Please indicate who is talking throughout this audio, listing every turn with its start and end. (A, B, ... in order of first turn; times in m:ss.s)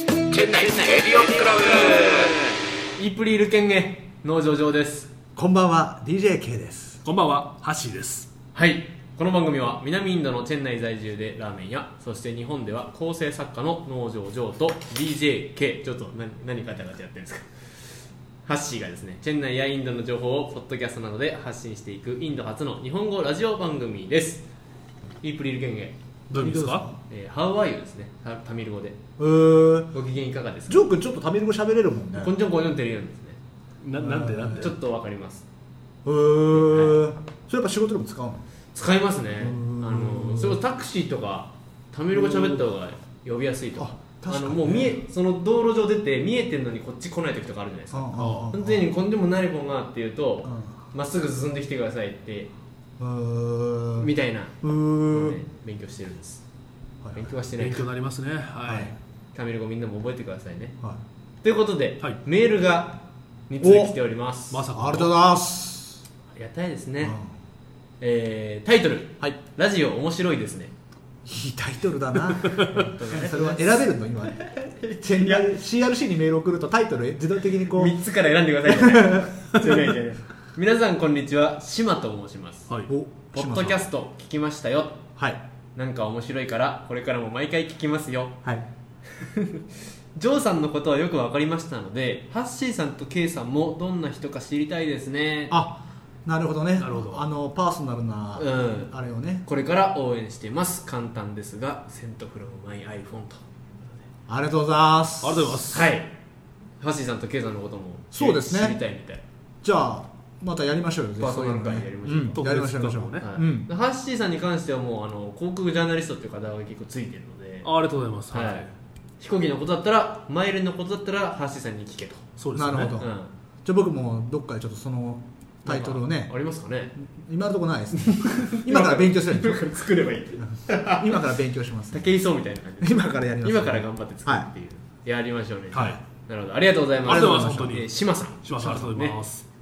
0:00.3-0:02.3 A
0:03.0-0:05.1 A
0:05.4-0:07.0 B
0:07.0-0:08.3 C
0:08.5-0:17.5 A
0:18.4-0:24.4 A
0:25.2-0:26.0 A
0:26.3-0:26.9 C
0:26.3-0:27.0 B
0:27.1-0:29.0 A
0:29.2-0:29.9 B
0:29.9-0:30.8 A
0:30.7-0:32.3 B
0:32.2-0:33.4 A
0:33.8-0:34.7 C
0:34.0-0:34.7 B
0:34.5-0:35.4 A
0:36.0-0:38.4 B
0:36.6-0:37.0 A
0:38.7-0:52.5 A
0:39.4-0:40.6 B
0:42.1-0:42.6 B
0:43.8-0:45.0 B
0:47.9-0:48.8 B
0:48.2-0:48.5 C
0:50.4-0:50.7 B
0:53.0-0:54.1 B
0:54.0-0:56.4 A
0:54.6-0:55.4 B
0:57.1-0:57.8 A
0:57.6-0:58.9 C
0:58.6-0:59.0 B
0:59.3-1:00.8 A
1:01.4-1:04.6 A
1:03.6-1:03.9 B
1:04.5-1:05.2 C
1:04.8-1:06.0 B
1:06.3-1:07.2 A
1:08.0-1:10.7 A
1:11.2-1:14.5 B
1:12.7-1:15.5 A
1:15.0-1:17.9 B
1:17.7-1:22.7 A
1:18.7-1:19.2 B
1:22.9-1:23.8 B
1:23.3-1:25.0 A
1:25.8-1:28.4 A
1:29.2-1:29.6 A
1:30.1-1:35.6 A
1:35.5-1:39.4 B
1:36.8-1:37.3 C
1:38.4-1:38.9 A
1:39.4-1:43.4 A
1:44.3-1:45.7 B
1:45.2-1:45.9 C
1:45.7-1:46.1 A
1:46.8-1:49.2 A
1:48.1-1:48.8 B
1:49.6-1:53.7 B
1:51.2-1:52.4 A
1:52.3-1:53.3 C
1:53.2-1:57.7 A
1:57.6-1:58.7 C
1:58.3-1:58.7 A
1:59.2-2:02.2 A
2:02.4-2:03.0 C
2:02.5-2:03.1 B
2:03.0-2:03.3 A
2:03.6-2:06.3 B
2:05.6-2:06.9 A
2:07.0-2:09.7 B
2:08.0-2:11.2 A
2:10.4-2:12.1 B
2:11.9-2:19.2 A
2:12.8-2:14.5 B
2:15.7-2:16.0 C
2:15.7-2:16.0 B
2:17.0-2:17.8 B
2:17.0-2:19.4 C